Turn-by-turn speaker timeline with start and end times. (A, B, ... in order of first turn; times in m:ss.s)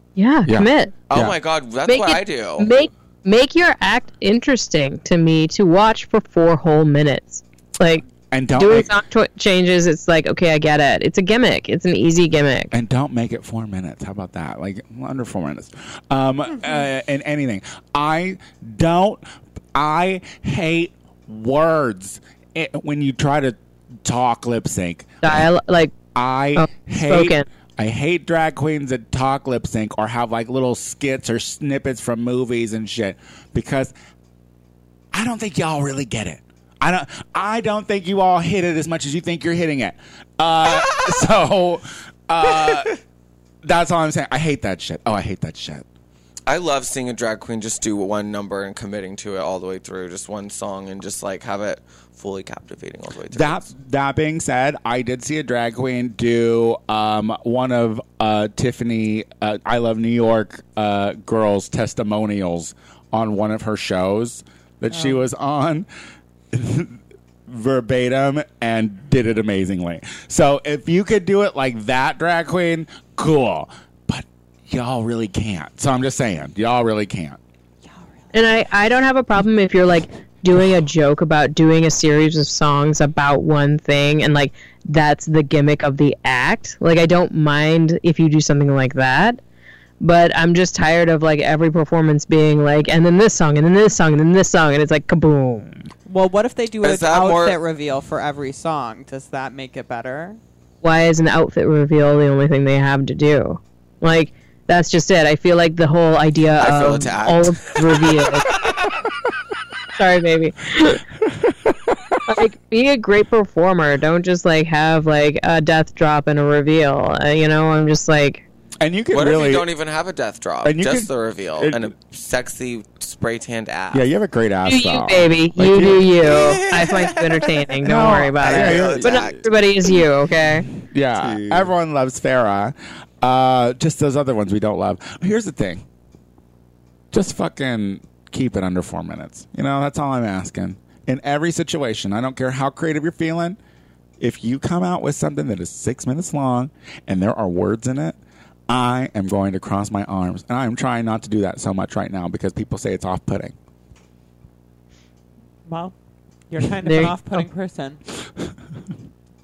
0:00.2-0:01.0 A
0:00.5-0:01.4 B
0:01.1-0:02.7 C
0:01.9-0:12.7 A
0:08.3-0:09.0 B
0:12.7-0:25.5 B
0:25.2-0:26.0 A
0:26.2-0:33.9 B
0:26.6-0:27.5 A
0:35.1-0:42.9 B
0:40.8-0:41.1 C
0:42.5-0:42.9 C
0:43.6-0:45.8 B
0:46.5-0:53.7 C
0:53.3-1:05.9 B
1:04.9-1:05.2 D
1:06.5-1:17.4 B
1:17.8-1:18.7 D
1:18.3-1:29.4 A
1:30.0-1:35.8 A
1:36.1-1:40.4 D
1:36.8-1:37.6 C
1:40.8-1:48.6 A
1:46.6-1:48.9 C
1:49.9-1:51.0 A
1:51.3-1:52.4 B
1:52.3-1:58.5 A
1:58.8-1:59.7 B
1:59.1-2:04.1 C
2:00.6-2:01.9 B
2:03.9-2:06.4 B
2:04.7-2:10.7 A
2:06.2-2:07.8 C
2:07.8-2:09.4 B
2:08.4-2:10.0 C
2:10.7-2:15.8 B
2:11.2-2:11.7 C
2:17.1-2:23.6 B
2:24.2-2:28.2 B
2:28.7-2:33.6 B
2:35.7-2:35.9 D
2:36.5-2:38.0 D
2:36.8-2:37.5 A